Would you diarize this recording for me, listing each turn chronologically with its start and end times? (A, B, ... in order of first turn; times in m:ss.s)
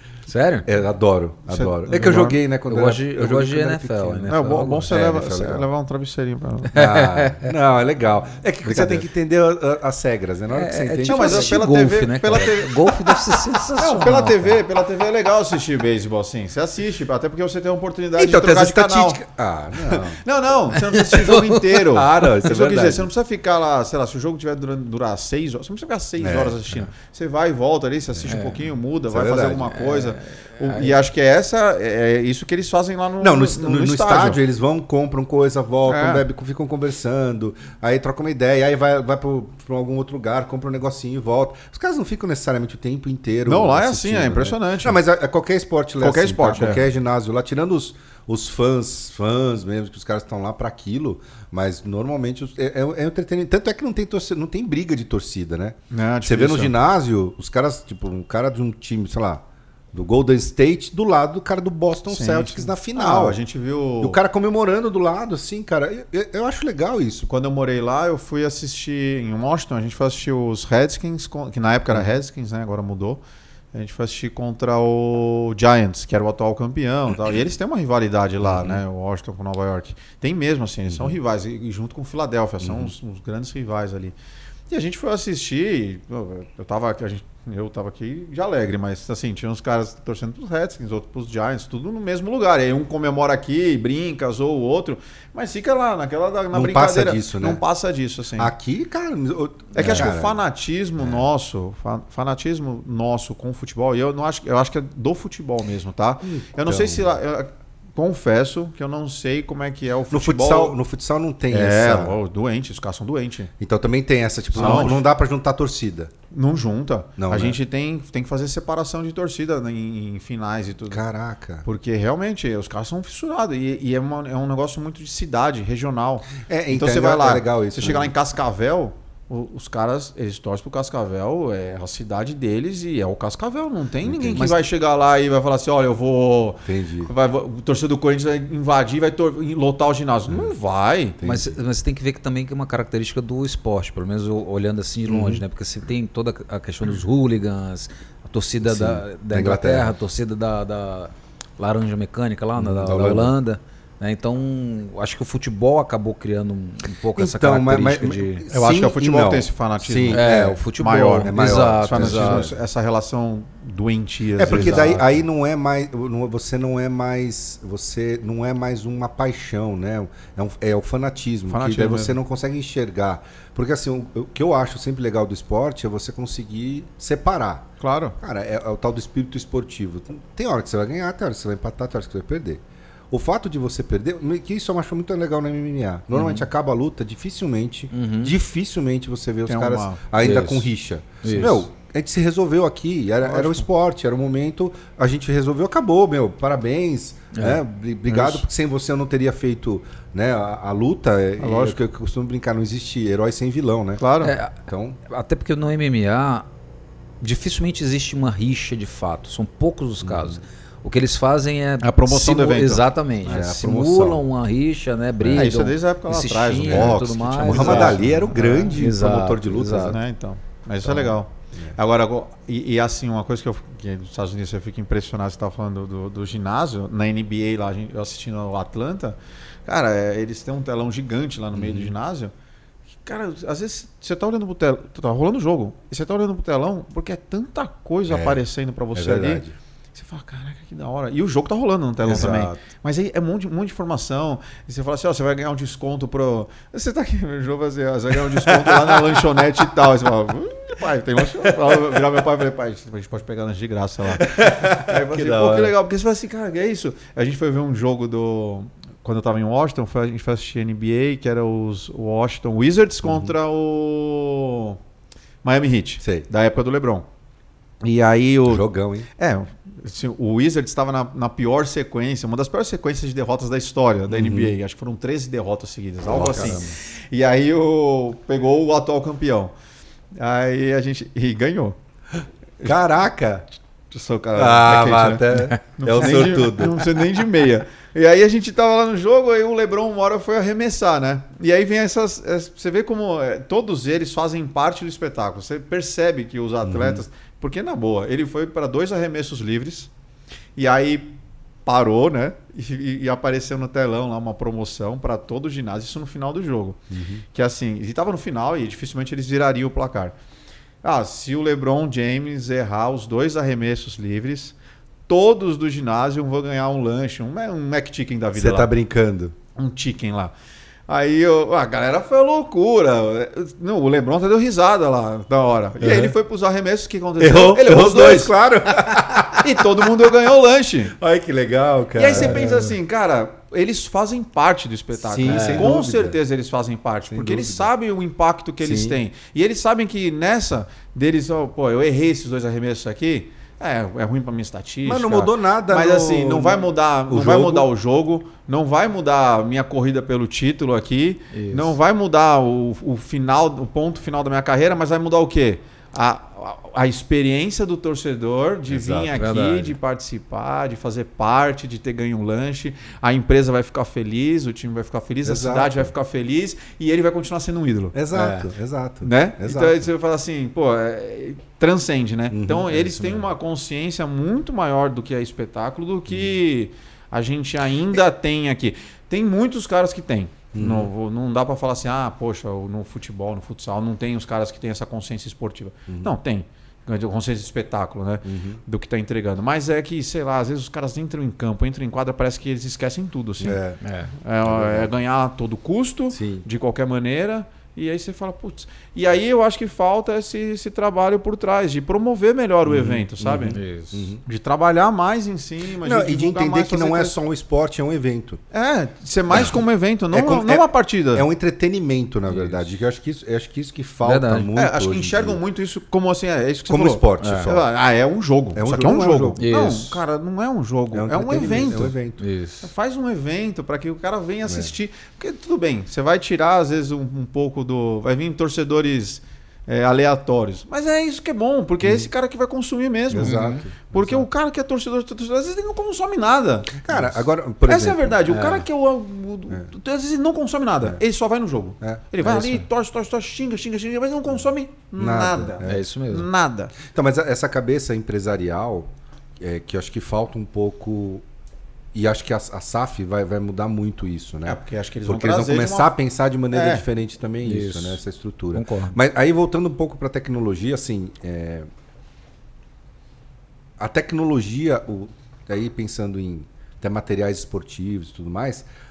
0:00.3-0:00.7 A
0:00.6-0:05.7 B
0:01.5-0:02.4 C
0:02.7-0:04.9 A
0:04.3-0:06.8 C
0:06.7-0:11.6 B
0:06.7-0:07.5 A
0:08.6-0:09.0 C
0:10.5-0:14.6 A
0:11.0-0:19.2 C
0:18.2-0:20.2 B
0:19.9-0:34.4 C
0:20.7-0:21.7 A
0:21.8-0:23.1 B
0:26.2-0:26.6 B
0:28.3-0:28.7 A
0:29.1-0:29.8 B
0:29.7-0:31.0 A
0:33.2-1:03.4 B
0:35.9-0:36.2 C
0:43.4-0:45.0 C
0:46.0-0:46.8 C
0:55.9-0:56.7 C
1:02.1-1:04.2 C
1:04.0-1:07.3 B
1:07.3-1:13.2 C
1:13.7-1:24.1 C
1:18.4-1:18.8 B
1:20.9-1:21.2 B
1:22.6-1:22.9 B
1:24.7-1:38.5 C
1:36.5-1:37.6 B
1:38.4-1:40.4 B
1:39.7-1:50.8 C
1:41.0-1:41.2 B
1:46.2-1:47.1 B
1:50.1-1:52.2 B
1:51.5-1:53.5 C
1:53.6-1:56.1 B
1:54.5-1:55.0 C
1:56.3-2:01.0 C
1:57.2-1:57.6 B
2:00.9-2:01.6 B
2:01.6-2:21.2 C
2:06.3-2:08.1 B
2:14.0-2:14.6 B
2:16.6-2:17.1 B
2:20.3-2:20.5 B
2:21.2-2:21.6 B
2:21.2-2:38.4 A
2:25.1-2:25.4 B
2:28.6-2:29.9 B
2:32.6-2:33.3 B
2:37.2-2:40.6 B
2:38.5-2:45.0 C
2:40.1-2:42.5 A
2:41.2-2:42.6 B
2:44.4-3:24.0 B
2:44.4-2:45.1 A
2:51.5-2:52.2 C
2:57.8-2:58.2 C
3:06.1-3:06.4 A
3:07.9-3:08.3 A
3:09.5-3:10.0 C
3:10.2-3:10.7 A
3:11.2-3:11.6 A
3:13.2-3:13.7 C
3:17.3-3:17.6 A
3:21.4-3:21.8 C
3:24.0-3:24.3 C
3:24.2-3:26.5 A
3:24.6-3:25.0 B
3:27.2-3:40.0 A
3:30.0-3:30.4 B
3:31.8-3:32.9 C
3:33.2-3:34.2 B
3:35.2-3:35.5 B
3:35.3-3:38.8 C
3:36.6-3:40.0 B
3:39.8-3:52.3 C
3:40.8-3:41.8 B
3:51.5-3:51.9 B
3:53.0-4:24.8 C
3:58.1-3:58.4 B
3:58.9-3:59.6 B
4:02.0-4:02.5 B
4:02.1-4:02.5 A
4:08.3-4:09.2 B
4:11.4-4:12.0 B
4:14.2-4:15.7 B
4:23.0-4:23.3 B
4:25.4-4:27.0 C
4:26.0-4:26.3 B
4:27.8-4:39.5 C
4:28.5-4:29.1 B
4:34.1-4:34.5 B
4:36.1-4:36.7 B
4:36.1-4:36.8 A
4:40.2-4:41.8 C
4:42.6-4:43.4 B
4:43.9-4:59.9 C
4:44.3-4:46.9 B
4:56.6-4:57.0 B
5:00.6-5:06.8 C
5:06.9-5:07.2 B
5:07.3-5:10.2 C
5:10.8-5:14.5 C
5:15.1-5:18.7 C
5:18.3-5:19.3 B
5:19.6-5:20.3 C
5:20.9-5:28.3 C
5:25.8-5:26.1 B
5:27.2-5:30.0 B
5:29.4-5:30.9 C
5:31.0-5:32.8 B
5:31.9-6:08.0 C
5:35.0-5:36.2 B
5:35.2-5:35.7 A
5:37.1-5:37.7 B
5:38.6-5:39.0 B
5:44.8-5:47.7 B
5:51.3-5:51.8 A
5:58.7-5:59.2 B
5:59.1-5:59.8 A
6:05.2-6:05.9 B
6:07.9-6:09.9 B
6:08.1-6:08.5 A
6:09.0-6:33.6 C
6:12.3-6:12.9 B
6:12.8-6:13.2 A
6:20.5-6:20.9 B
6:25.9-6:26.1 B
6:28.2-6:28.6 B
6:33.4-6:33.8 B
6:33.8-6:34.1 A
6:34.2-6:43.6 C
6:34.4-6:34.9 B
6:36.1-6:36.4 B
6:42.6-6:44.2 B
6:43.5-6:44.1 A
6:44.2-6:47.2 C
6:45.8-6:48.4 B
6:48.5-6:51.2 C
6:50.1-6:55.4 B
6:52.3-6:52.6 A
6:54.0-6:54.5 A
6:54.6-7:01.9 C
6:56.7-6:57.7 B
6:57.2-6:57.5 A
6:58.5-6:59.4 B
6:59.4-7:00.0 A
7:00.9-7:02.2 B
7:02.2-7:02.7 A
7:02.6-7:26.7 C
7:04.5-7:04.7 B
7:11.8-7:12.1 B
7:13.1-7:14.3 B
7:13.2-7:13.6 A
7:16.8-7:18.2 B
7:18.3-7:18.6 A
7:22.2-7:22.6 A
7:25.0-7:25.8 B
7:25.6-7:26.3 A
7:26.8-7:31.2 B
7:31.9-7:41.7 B
7:34.4-7:35.9 C
7:36.5-7:36.8 C
7:37.4-7:38.0 A
7:38.5-7:39.0 A
7:43.8-7:48.7 B